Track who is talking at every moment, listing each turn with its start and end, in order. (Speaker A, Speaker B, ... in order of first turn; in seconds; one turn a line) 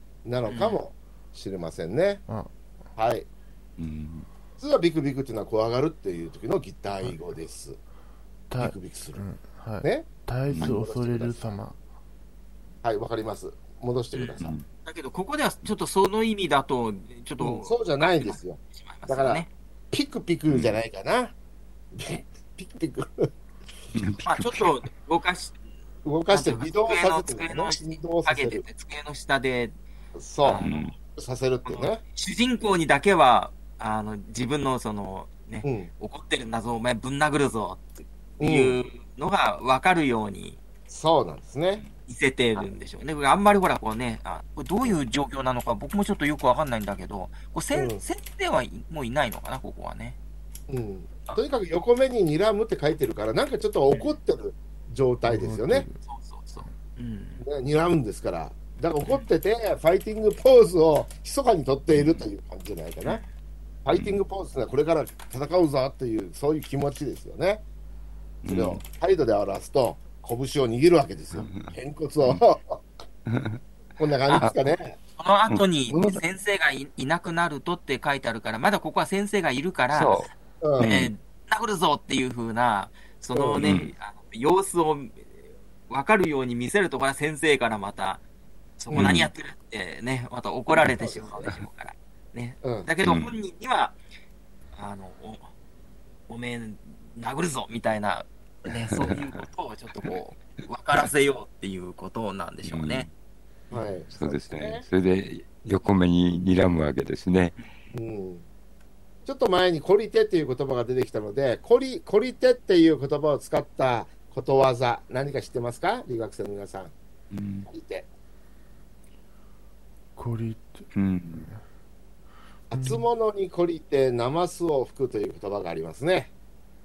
Speaker A: 0.2-2.2
Speaker B: 0.5-0.8
Speaker A: 3.0-3.3
Speaker C: 3.8-4.3
Speaker A: 4.6-7.8
Speaker D: 8.5-11.8
Speaker A: 8.6-9.2
Speaker A: 9.8-11.6
Speaker C: 10.5-10.8
Speaker A: 12.8-14.5
Speaker B: 14.1-19.5
Speaker A: 17.4-21.3
Speaker C: 20.5-20.8
Speaker A: 21.9-23.3
Speaker C: 23.9-24.7
Speaker B: 24.2-25.6
Speaker A: 26.0-28.6
Speaker B: 26.3-29.8
Speaker A: 30.1-32.0
Speaker B: 30.4-30.9
Speaker C: 30.6-30.9
Speaker B: 31.7-40.6
Speaker A: 35.6-35.9
Speaker A: 38.4-38.8
Speaker A: 40.9-41.8
Speaker B: 41.9-50.2
Speaker A: 47.7-48.0
Speaker A: 50.7-55.9
Speaker B: 53.9-54.2
Speaker D: 55.2-56.0
Speaker B: 56.0-57.4
Speaker A: 57.4-63.2
Speaker C: 62.0-62.2
Speaker A: 63.8-67.6
Speaker C: 68.4-68.8
Speaker A: 68.4-72.8
Speaker C: 71.3-71.7
Speaker C: 73.3-73.6
Speaker A: 74.0-75.0
Speaker C: 74.3-74.7
Speaker B: 75.2-80.3
Speaker A: 75.9-76.2
Speaker C: 79.9-81.1
Speaker A: 80.6-80.9
Speaker B: 80.8-85.3
Speaker A: 83.3-83.6
Speaker C: 83.6-83.9
Speaker B: 85.9-88.2
Speaker B: 88.8-94.0
Speaker C: 88.9-89.3
Speaker A: 92.6-92.9
Speaker C: 93.0-93.3
Speaker B: 94.7-95.5
Speaker B: 96.3-103.1
Speaker C: 98.7-99.4
Speaker C: 102.6-103.1
Speaker A: 103.7-104.8
Speaker C: 104.1-107.5
Speaker A: 107.9-108.4
Speaker A: 109.2-116.9
Speaker C: 117.3-117.7
Speaker A: 117.7-118.1
Speaker D: 120.2-120.9
Speaker C: 120.9-121.5
Speaker A: 122.7-126.3
Speaker D: 122.7-123.0